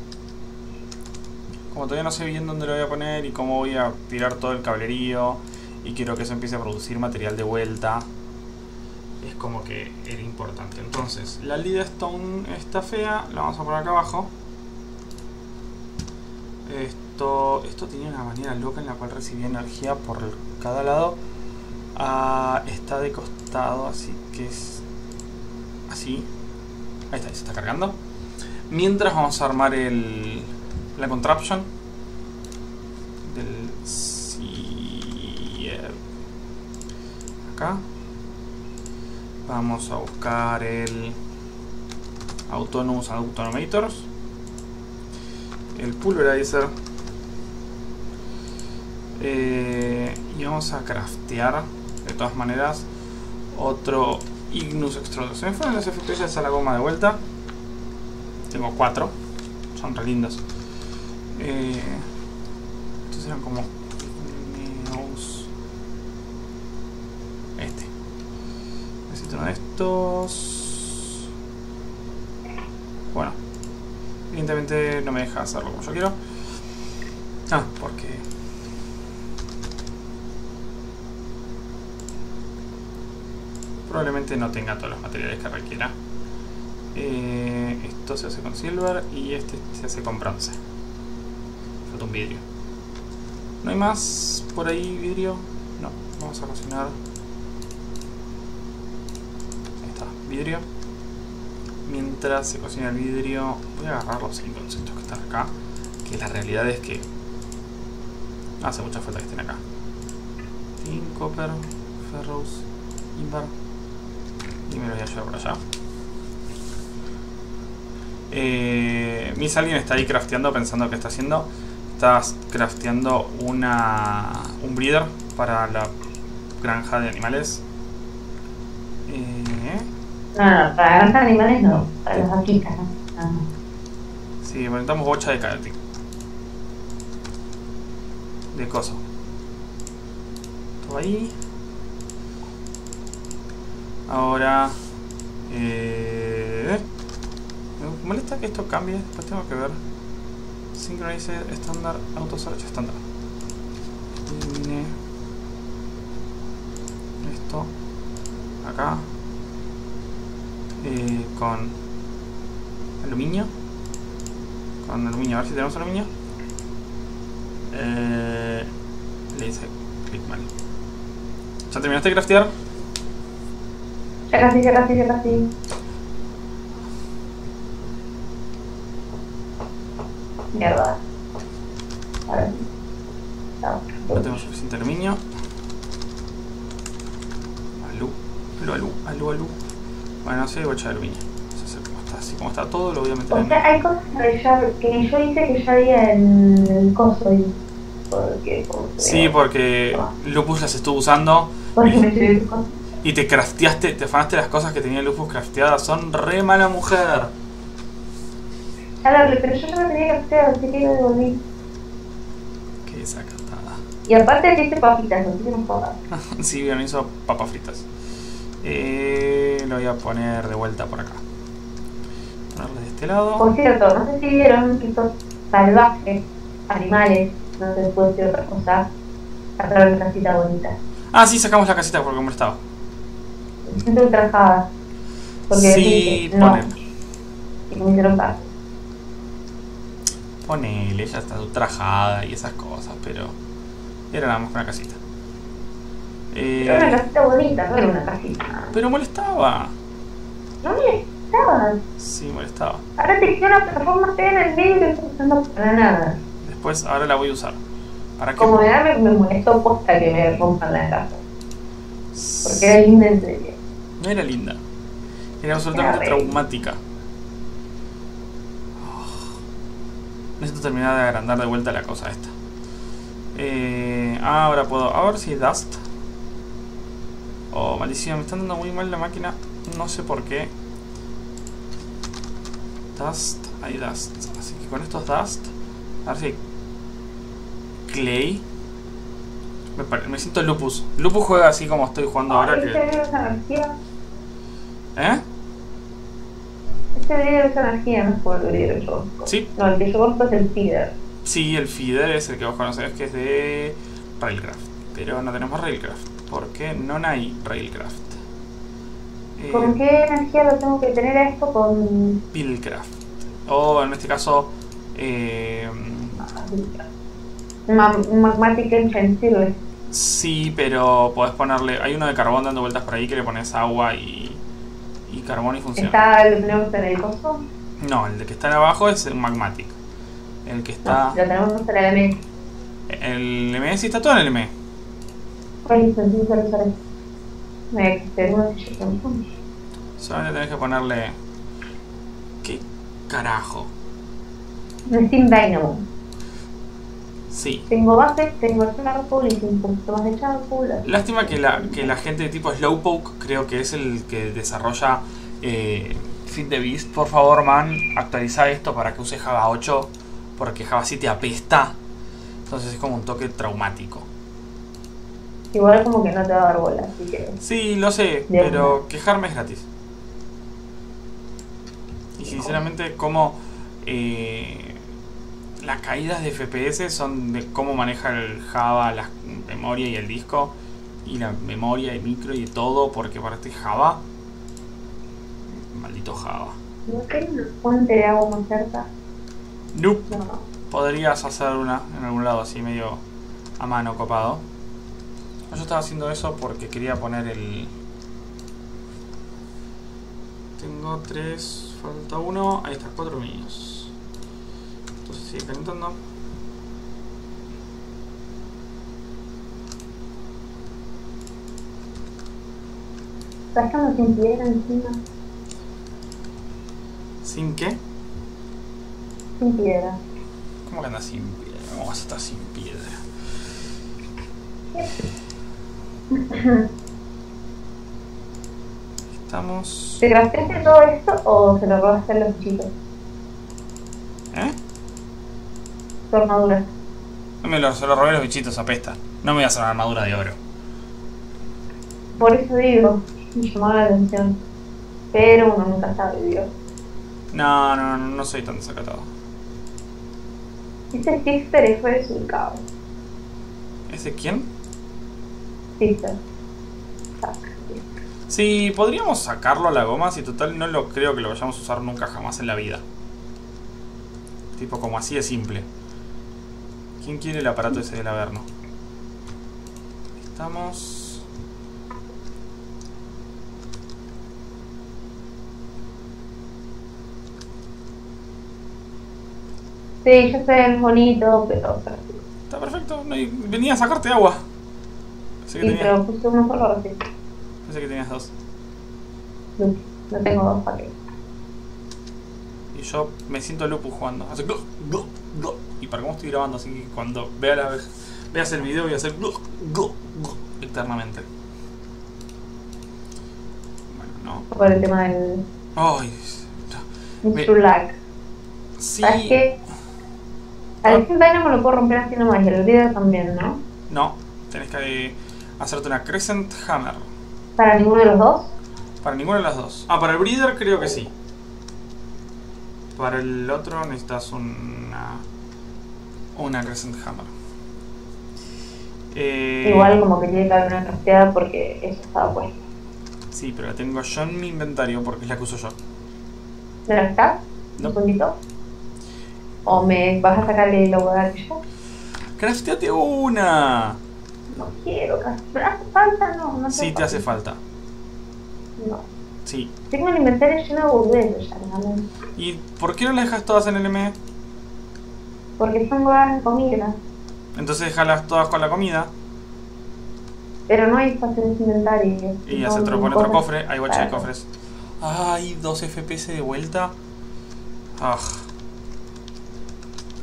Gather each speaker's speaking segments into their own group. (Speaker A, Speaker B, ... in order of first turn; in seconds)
Speaker A: 1.7-8.1, 9.2-14.3, 16.6-21.2, 21.9-24.8, 25.9-26.3, 27.1-28.0, 28.7-31.7, 33.2-36.0, 37.5-37.9, 39.5-41.2, 42.5-44.1, 45.7-46.7, 49.2-52.9, 53.5-57.2, 58.5-59.1, 59.8-60.4, 61.3-62.1, 63.1-65.5, 67.6-67.9, 69.1-71.1, 73.1-73.4, 74.3-76.2, 77.5-78.2, 83.9-86.0, 86.9-90.6, 91.9-92.4, 93.6-97.0, 99.8-100.7, 101.9-105.5, 106.0-107.1, 108.6-109.6, 110.8-113.5, 114.7-115.6, 118.3-125.9, 126.6-127.6, 129.1-129.9, 134.4-135.8, 138.5-139.0, 140.8-141.3, 144.1-144.8, 145.5-146.8, 147.8-149.8, 150.7-153.0, 154.3-154.9, 157.2-157.7, 158.6-159.1, 160.8-161.7, 163.0-163.5, 164.8-166.1, 167.7-168.7, 169.3-170.5, 171.7-172.5, 184.1-185.2, 187.8-189.6, 190.2-193.6, 199.0-202.1, 203.0-207.3, 212.9-213.8, 216.1-217.9, 218.6-221.2, 222.5-223.5, 231.1-232.6, 235.5-236.7, 240.4-243.4, 244.1-245.0, 246.3-247.0, 248.7-249.7, 252.0-252.8, 256.4-257.6, 258.2-258.6, 262.1-262.8, 264.0-264.6, 265.4-266.8, 268.8-269.4, 270.4-272.3, 273.4-275.8, 277.5-280.5, 282.9-285.5, 286.1-286.4, 287.9-288.4, 289.8-292.8, 295.0-295.2, 301.2-308.2, 309.4-309.8, 312.3-312.9, 313.4-316.2, 319.9-324.4, 325.1-326.0, 327.8-329.7, 330.4-331.2, 332.9-334.5, 340.0-341.1, 342.4-343.7, 347.3-347.7, 350.9-361.8, 362.5-364.1, 367.4-369.7, 372.2-374.8, 375.6-384.0, 385.5-386.6, 389.7-390.2, 390.7-393.0, 393.6-394.4, 395.5-397.7, 400.6-403.9, 405.1-406.0, 417.2-417.8, 420.6-423.0, 429.1-430.0, 437.4-440.4, 447.3-449.1, 453.9-454.5, 458.3-462.8, 464.6-465.7, 467.0-468.5, 470.2-471.2, 482.5-484.4, 485.4-485.9, 487.7-488.3, 492.7-501.3, 503.9-504.5, 505.8-507.5, 508.8-509.4, 513.9-517.0, 519.0-521.1, 523.0-525.2, 526.4-527.3, 529.1-530.0, 533.3-535.8, 542.4-544.0, 546.7-547.6, 549.5-549.7, 552.4-554.2, 557.6-559.1, 562.5-567.0, 568.0-568.5
Speaker B: 130.3-133.5, 174.3-175.5, 180.5-181.0, 182.3-182.7, 183.6-184.3, 193.3-197.5, 198.1-199.3, 201.8-202.8, 209.0-211.4, 214.1-216.0, 223.4-228.9, 229.6-230.8, 233.7-234.7, 235.5-236.7, 237.7-238.5, 246.6-248.7, 250.6-251.8, 253.0-256.2, 258.4-261.2, 262.4-263.6, 265.7-266.3, 292.3-293.8, 296.9-300.9, 309.5-312.2, 316.2-316.9, 317.7-319.6, 325.8-327.4, 330.9-332.2, 335.6-336.7, 337.7-339.2, 344.9-345.8, 347.7-351.8, 365.5-367.4, 368.3-368.8, 372.3-372.6, 386.9-388.9, 390.1-390.4, 413.5-415.0, 419.4-420.0, 424.7-425.0, 426.1-426.7, 430.0-432.7, 436.1-436.7, 442.1-444.4, 445.1-446.5, 450.9-452.6, 455.8-456.2, 457.2-457.9, 480.0-482.2, 485.6-487.0, 489.6-490.9, 504.5-505.4, 507.2-507.9, 509.0-509.5, 510.8-513.6, 517.6-518.5, 529.6-532.6, 536.9-538.4, 539.6-541.6, 544.5-547.3, 548.8-549.1, 549.9-552.1, 555.6-557.0, 560.7-564.3